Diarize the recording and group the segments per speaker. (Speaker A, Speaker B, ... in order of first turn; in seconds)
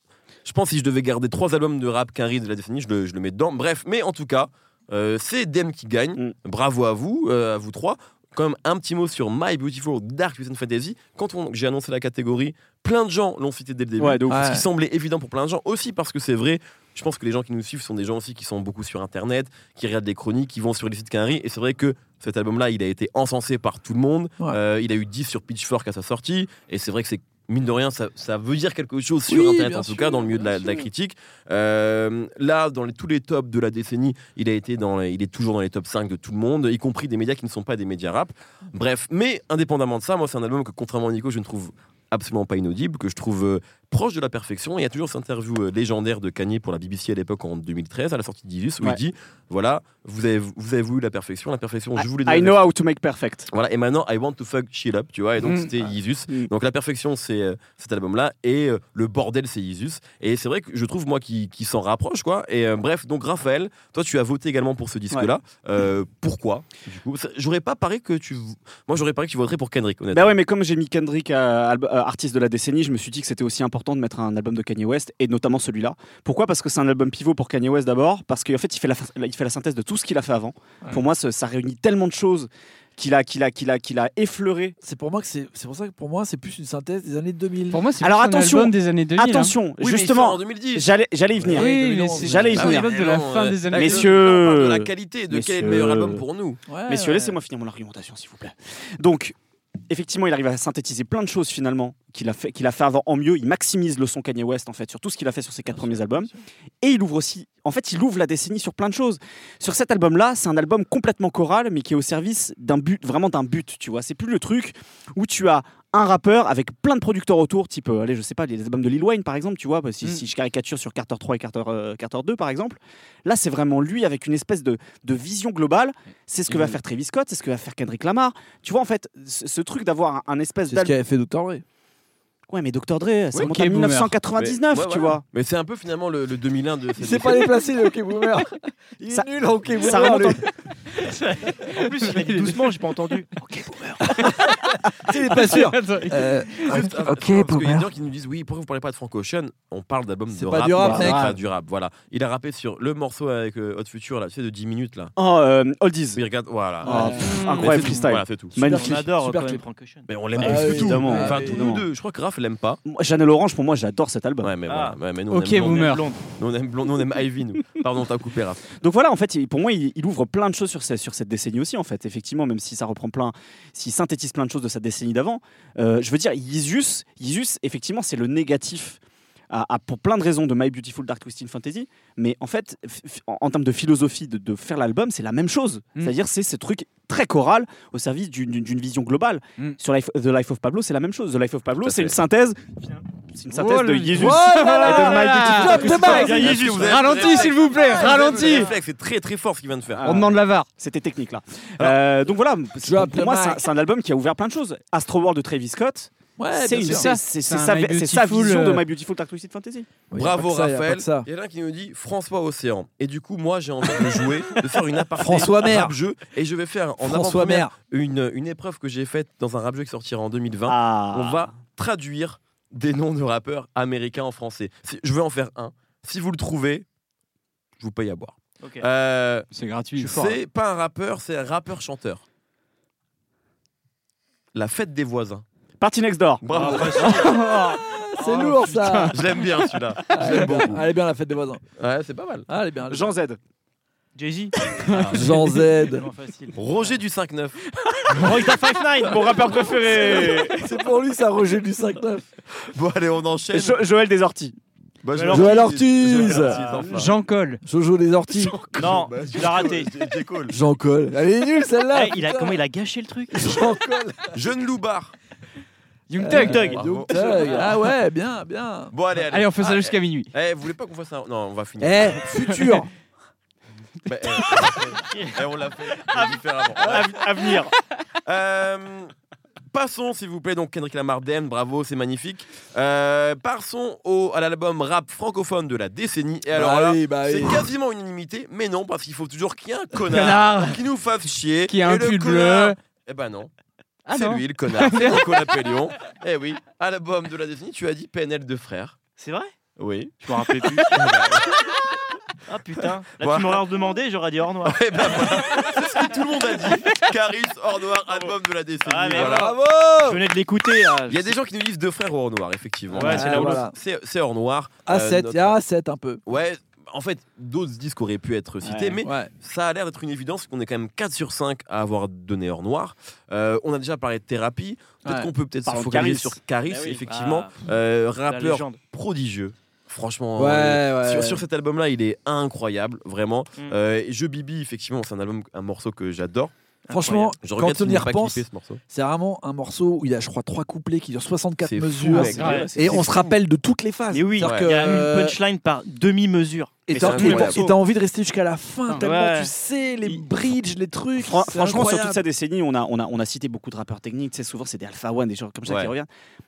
Speaker A: 0.4-52.6, 53.5-70.3, 89.8-90.9, 92.5-96.6, 126.5-126.8, 134.3-137.5, 146.6-155.1, 156.1-158.5, 160.1-162.8, 164.4-168.6, 191.8-192.2, 196.2-200.2, 210.1-226.8, 227.8-232.2, 234.5-235.4, 236.4-237.3, 239.1-240.8, 241.8-242.5, 246.5-247.6, 252.5-253.8, 255.0-257.1, 258.3-260.6, 264.3-265.1, 266.6-267.7, 268.9-272.3, 274.1-277.2, 278.2-279.1, 279.7-293.5, 294.1-299.0, 299.8-300.2, 300.9-302.0, 303.2-303.6, 304.6-309.5, 311.1-315.6, 316.2-336.5, 337.4-338.8, 341.6-343.3, 344.4-344.9, 346.9-347.6, 355.6-355.9
Speaker B: 14.0-14.4, 52.0-53.5, 70.1-84.8, 88.0-92.9, 93.7-96.2, 96.9-99.3, 99.9-130.9, 132.5-135.2, 139.1-140.4, 150.8-151.1, 155.2-156.2, 156.8-159.0, 160.4-161.8, 162.8-164.5, 168.8-179.0, 179.5-196.7, 199.9-209.9, 220.7-221.5, 235.8-237.4, 242.9-243.4, 248.2-250.6, 253.5-254.6, 276.9-277.7, 318.6-319.0, 325.6-327.0, 342.1-343.2, 346.9-347.7, 351.2-356.1
Speaker C: 14.3-14.7, 29.3-30.9, 84.8-87.8, 91.5-92.7, 96.7-97.4, 130.7-131.6, 137.0-140.4, 143.7-147.9, 150.3-151.3, 158.5-159.6, 160.3-161.8, 194.1-196.6, 202.8-203.6, 206.4-207.1, 210.1-211.3, 215.2-215.9, 217.0-217.7, 237.9-239.2, 240.1-241.6, 242.5-243.1, 245.1-246.1, 250.2-252.3, 255.3-256.6, 257.6-258.6, 260.5-262.6, 263.3-264.4, 266.2-268.9, 271.8-272.9, 286.5-287.7, 309.1-310.2, 313.0-313.7, 314.9-316.2, 319.0-319.3, 325.0-325.3, 330.4-331.4, 336.9-345.4, 346.9-352.2
Speaker D: 87.7-89.6, 91.5-94.1, 133.3-134.2, 140.9-142.6, 144.0-144.5, 145.1-146.8, 150.9-151.4, 156.9-158.0, 165.3-166.1, 193.5-198.7, 200.0-200.7, 206.8-208.8, 229.5-230.4, 237.1-237.8, 238.5-239.1, 244.7-245.5, 247.9-248.3, 256.9-257.6, 266.1-266.8, 269.3-270.3, 290.1-290.8, 291.7-292.8, 294.1-295.4, 342.2-342.6
Speaker E: 141.6-143.3, 158.6-160.1, 164.7-165.0, 165.5-166.2, 195.9-197.5, 198.3-198.7, 236.5-237.4, 244.2-246.9, 248.1-249.7, 255.1-256.9, 258.7-259.9, 261.9-263.6, 266.3-267.7, 275.1-275.4, 276.0-277.7, 299.2-299.5, 300.2-301.0, 302.4-305.9, 306.6-306.9, 308.1-311.4, 312.9-313.6, 327.1-327.7, 328.3-328.8, 336.9-337.3, 342.4-342.7, 344.1-346.8, 349.0-349.5